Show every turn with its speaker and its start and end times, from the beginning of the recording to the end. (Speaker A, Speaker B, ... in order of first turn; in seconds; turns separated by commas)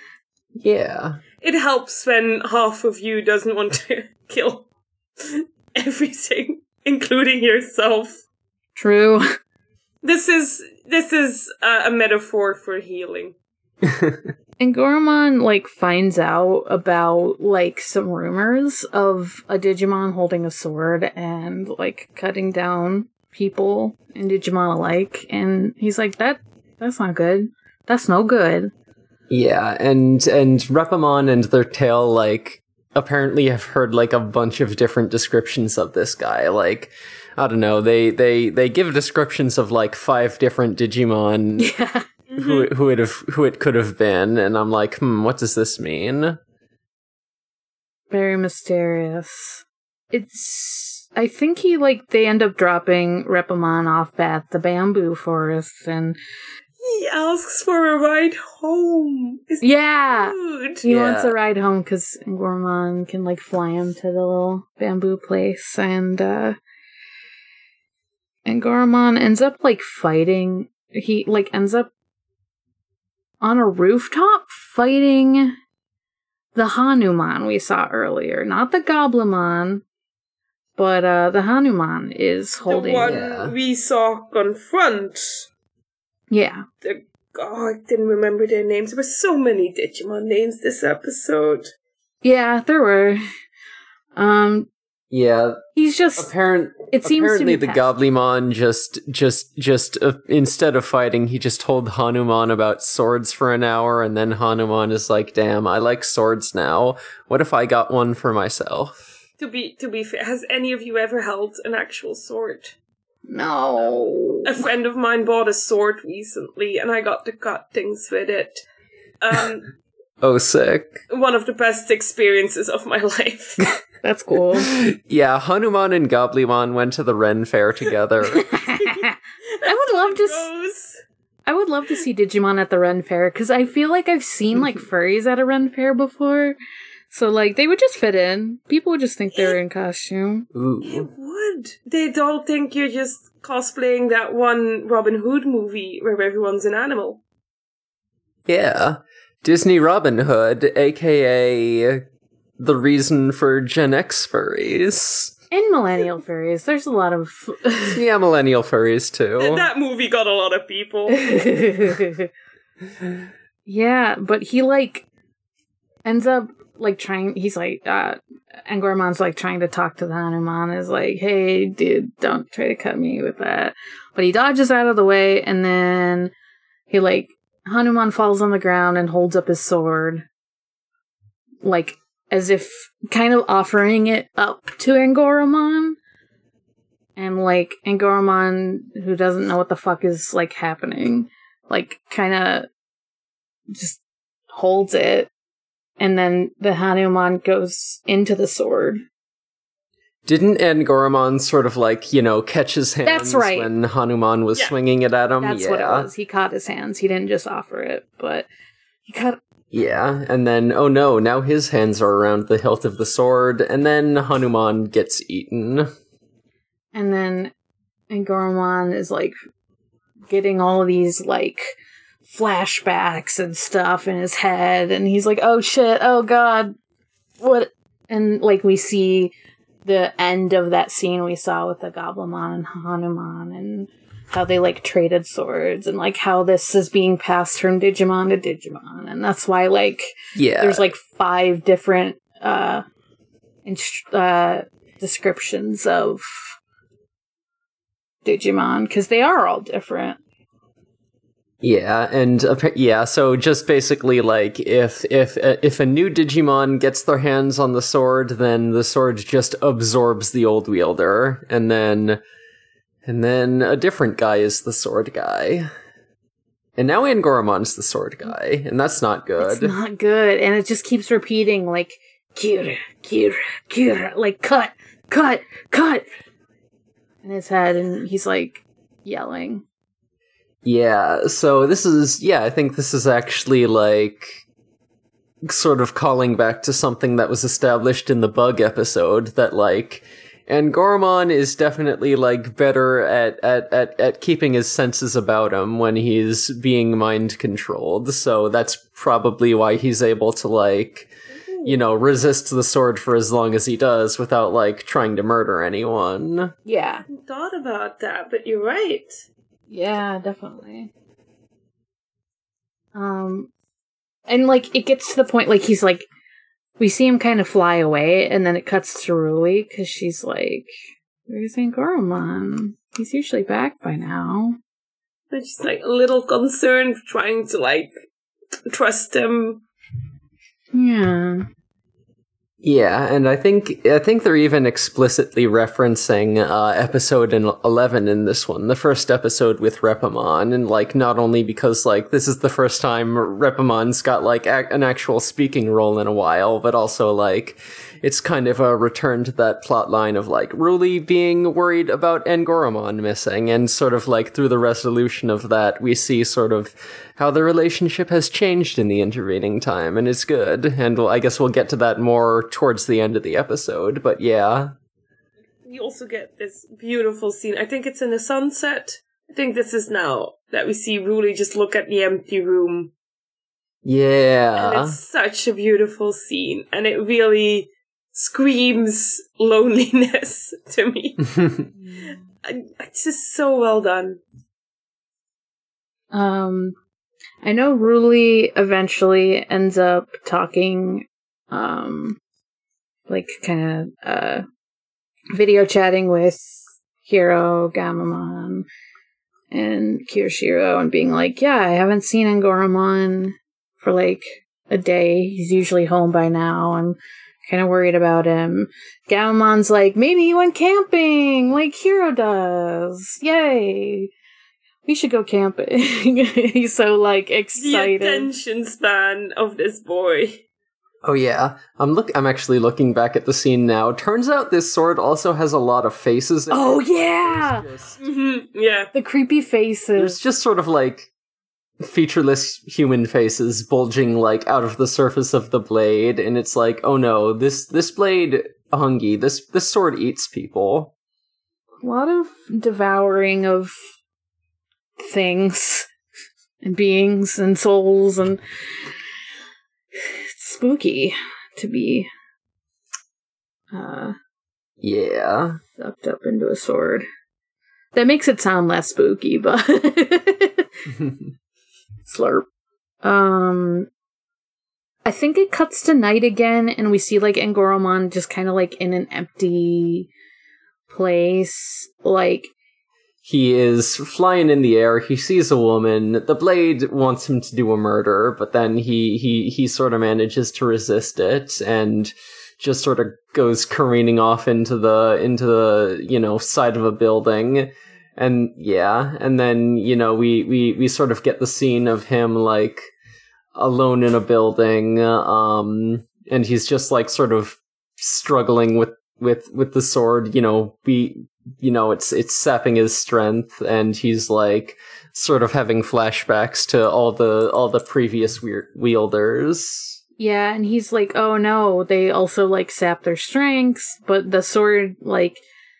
Speaker A: 0.6-1.2, Speaker B: 1.4-4.7, Speaker B: 5.2-8.2, Speaker C: 8.8-9.2, Speaker B: 10.0-13.3, Speaker A: 13.8-14.2, Speaker C: 14.6-28.7, Speaker A: 29.3-41.7, Speaker C: 41.6-42.0, Speaker B: 42.3-42.7, Speaker A: 42.4-46.4, Speaker C: 48.1-56.2, Speaker B: 56.8-60.8, Speaker C: 59.6-66.6, Speaker A: 60.8-61.3, Speaker C: 68.5-71.9, Speaker C: 73.4-75.5, Speaker C: 76.5-79.8, Speaker C: 80.8-83.1, Speaker B: 82.7-85.5, Speaker A: 83.0-83.5, Speaker C: 86.3-86.6, Speaker B: 86.8-91.7, Speaker C: 92.2-93.2, Speaker C: 94.2-94.7, Speaker A: 95.1-95.6, Speaker C: 95.7-96.3, Speaker A: 96.2-109.1, Speaker C: 96.9-97.9, Speaker B: 109.4-112.7, Speaker C: 113.3-114.6, Speaker B: 114.4-118.6, Speaker B: 119.2-119.7, Speaker A: 120.2-121.0, Speaker B: 121.1-123.7, Speaker C: 124.0-124.7, Speaker A: 124.6-128.4, Speaker C: 128.3-130.5, Speaker B: 128.8-131.0, Speaker C: 131.4-136.6, Speaker C: 137.1-140.4, Speaker B: 139.3-139.6, Speaker A: 140.5-141.1, Speaker B: 140.8-147.2, Speaker A: 148.5-152.0, Speaker A: 152.6-155.3, Speaker C: 155.5-158.0, Speaker A: 157.9-159.7, Speaker B: 159.4-161.3, Speaker C: 161.1-162.3, Speaker C: 163.7-165.1, Speaker C: 166.0-176.3, Speaker C: 176.9-180.2, Speaker C: 181.6-186.0, Speaker C: 187.2-192.7, Speaker C: 193.7-194.0, Speaker C: 194.5-195.3, Speaker C: 196.0-199.0, Speaker A: 200.2-206.1, Speaker C: 203.0-203.7, Speaker C: 205.4-208.5, Speaker C: 209.1-209.4, Speaker A: 209.7-215.9, Speaker C: 216.9-217.5, Speaker C: 218.1-219.3, Speaker C: 220.3-226.7, Speaker C: 227.4-229.3, Speaker C: 229.8-242.8, Speaker A: 240.3-240.8, Speaker C: 243.7-246.6, Speaker C: 248.2-250.2, Speaker A: 251.6-262.2, Speaker A: 263.0-265.7, Speaker A: 266.8-269.7, Speaker C: 269.4-276.0, Speaker C: 277.2-279.6, Speaker A: 280.6-284.4, Speaker A: 285.4-301.1, Speaker B: 301.5-301.8, Speaker A: 301.6-306.5, Speaker C: 306.6-307.0, Speaker B: 307.1-309.2, Speaker C: 309.7-310.9, Speaker C: 312.9-313.5, Speaker C: 314.3-316.1, Speaker C: 316.8-320.7, Speaker C: 321.3-324.6, Speaker B: 325.3-327.9, Speaker B: 328.7-329.6, Speaker C: 330.7-331.4, Speaker A: 332.6-364.7, Speaker B: 365.6-372.9, Speaker A: 373.8-374.9, Speaker B: 374.6-381.4, Speaker B: 382.0-384.2, Speaker C: 386.1-386.7, Speaker C: 387.4-392.2, Speaker C: 393.1-394.4, Speaker C: 395.3-398.6, Speaker C: 399.5-414.1, Speaker C: 414.9-418.3, Speaker B: 417.6-420.4, Speaker A: 421.0-428.0, Speaker C: 426.5-427.6, Speaker B: 428.0-428.9, Speaker C: 428.9-430.2, Speaker A: 430.0-431.1, Speaker A: 431.8-440.9, Speaker C: 441.8-443.7, Speaker C: 445.0-445.9, Speaker C: 446.6-448.4, Speaker C: 449.9-452.1, Speaker C: 453.7-454.1, Speaker A: 454.8-455.6, Speaker C: 455.8-457.1, Speaker C: 457.9-460.8, Speaker A: 460.9-461.3, Speaker C: 462.1-462.4, Speaker C: 463.0-463.9, Speaker C: 465.0-470.1, Speaker C: 470.9-472.5, Speaker A: 473.2-492.9, Speaker A: 493.6-510.0, Speaker C: 510.2-515.4